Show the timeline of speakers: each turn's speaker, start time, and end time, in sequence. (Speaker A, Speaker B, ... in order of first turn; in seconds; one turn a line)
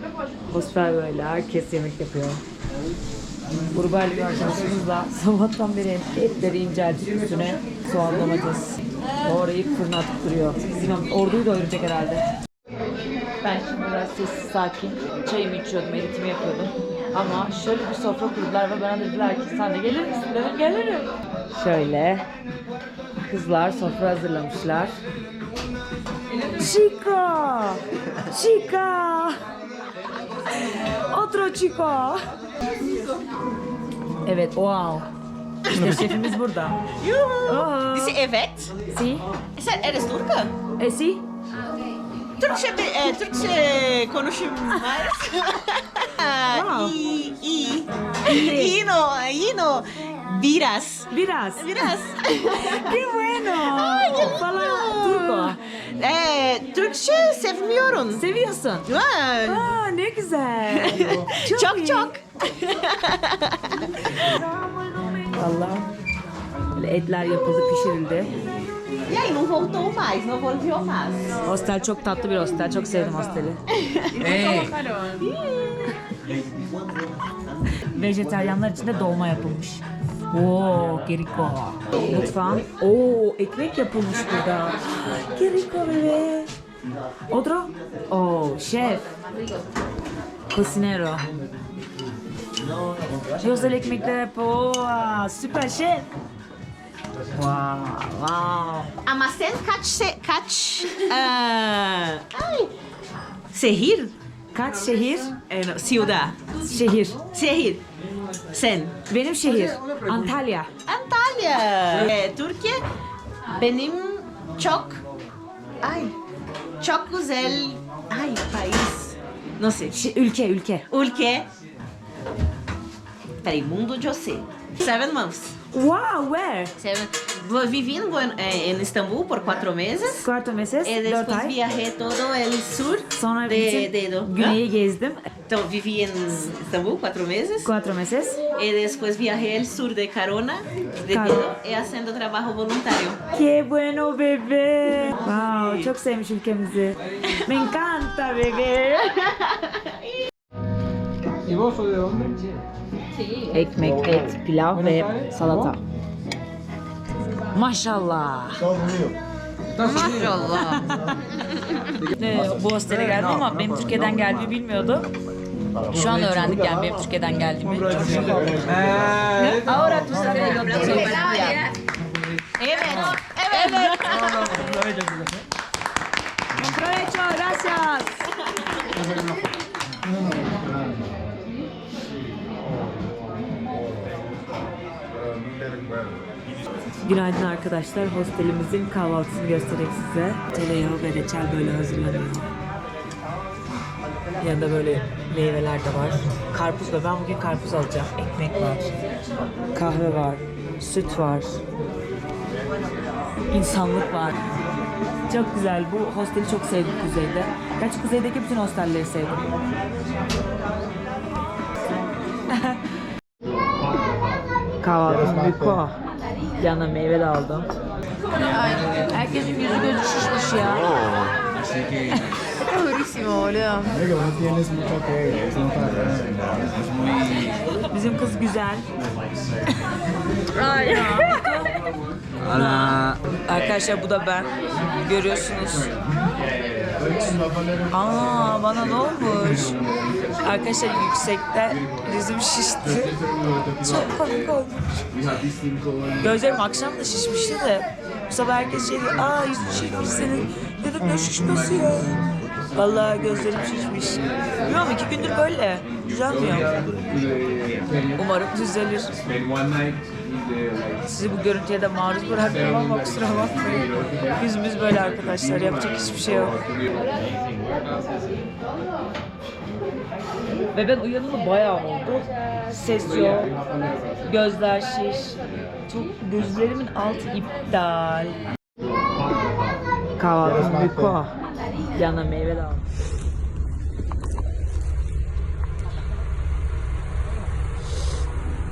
Speaker A: 0.5-2.4
Speaker A: 3.7-12.2
Speaker A: 13.4-22.2
Speaker A: 23.2-24.9
Speaker A: 26.6-29.4
Speaker A: 30.5-32.2
Speaker A: 34.2-35.1
Speaker A: 35.7-36.8
Speaker B: 37.0-38.8
Speaker A: 37.5-38.2
Speaker A: 38.9-39.3
Speaker B: 39.5-40.5
Speaker A: 40.8-41.2
Speaker B: 42.4-53.0
Speaker A: 46.5-46.9
Speaker A: 48.2-48.8
Speaker A: 51.1-55.6
Speaker B: 53.5-58.2
Speaker A: 58.1-62.1
Speaker B: 58.9-59.7
Speaker B: 60.8-64.3
Speaker A: 65.2-65.9
Speaker A: 66.7-68.3
Speaker B: 69.0-71.4
Speaker A: 71.4-73.6
Speaker B: 73.7-76.1
Speaker A: 77.8-86.5
Speaker A: 87.3-89.1
Speaker A: 90.5-91.3
Speaker A: 93.4-96.1
Speaker A: 97.3-98.9
Speaker B: 99.0-102.7
Speaker B: 103.5-104.1
Speaker A: 104.5-105.4
Speaker B: 105.5-106.4
Speaker A: 106.6-107.3
Speaker B: 107.3-107.8
Speaker B: 108.5-109.0
Speaker A: 109.1-110.7
Speaker B: 110.9-112.8
Speaker B: 113.5-115.0
Speaker B: 115.8-116.2
Speaker B: 116.8-120.0
Speaker A: 119.9-120.9
Speaker B: 120.9-121.5
Speaker B: 123.4-125.5
Speaker A: 125.7-126.7
Speaker B: 126.8-130.3
Speaker A: 130.1-131.6
Speaker B: 130.8-134.6
Speaker A: 133.1-135.2
Speaker B: 135.5-137.7
Speaker A: 137.6-138.4
Speaker B: 138.5-143.2
Speaker A: 141.1-141.5
Speaker A: 143.3-149.3
Speaker B: 149.4-149.9
Speaker C: 151.5-152.3
Speaker A: 153.5-155.8
Speaker A: 157.5-158.8
Speaker B: 159.8-160.9
Speaker A: 159.8-160.1
Speaker A: 160.7-161.2
Speaker B: 161.7-161.9
Speaker A: 162.0-165.1
Speaker A: 165.9-168.8
Speaker C: 168.3-169.5
Speaker B: 169.3-171.8
Speaker A: 170.3-171.5
Speaker B: 172.6-174.7
Speaker A: 173.5-174.0
Speaker C: 174.9-175.2
Speaker A: 176.5-178.3
Speaker A: 187.0-192.5
Speaker A: 194.4-199.0
Speaker A: 199.7-201.6
Speaker A: 203.5-204.4
Speaker A: 205.3-209.5
Speaker A: 212.5-212.8
Speaker A: 214.8-215.9
Speaker A: 216.6-217.7
Speaker A: 218.6-221.1
Speaker B: 222.7-224.0
Speaker C: 224.0-227.3
Speaker A: 227.9-228.9
Speaker A: 230.6-231.8
Speaker A: 232.4-235.9
Speaker A: 237.0-239.8
Speaker A: 240.4-245.1
Speaker A: 246.2-256.7
Speaker C: 257.3-257.8
Speaker A: 258.1-259.1
Speaker A: 261.0-266.6
Speaker A: 270.7-273.6
Speaker A: 274.2-278.4
Speaker A: 280.2-281.3
Speaker A: 281.9-282.9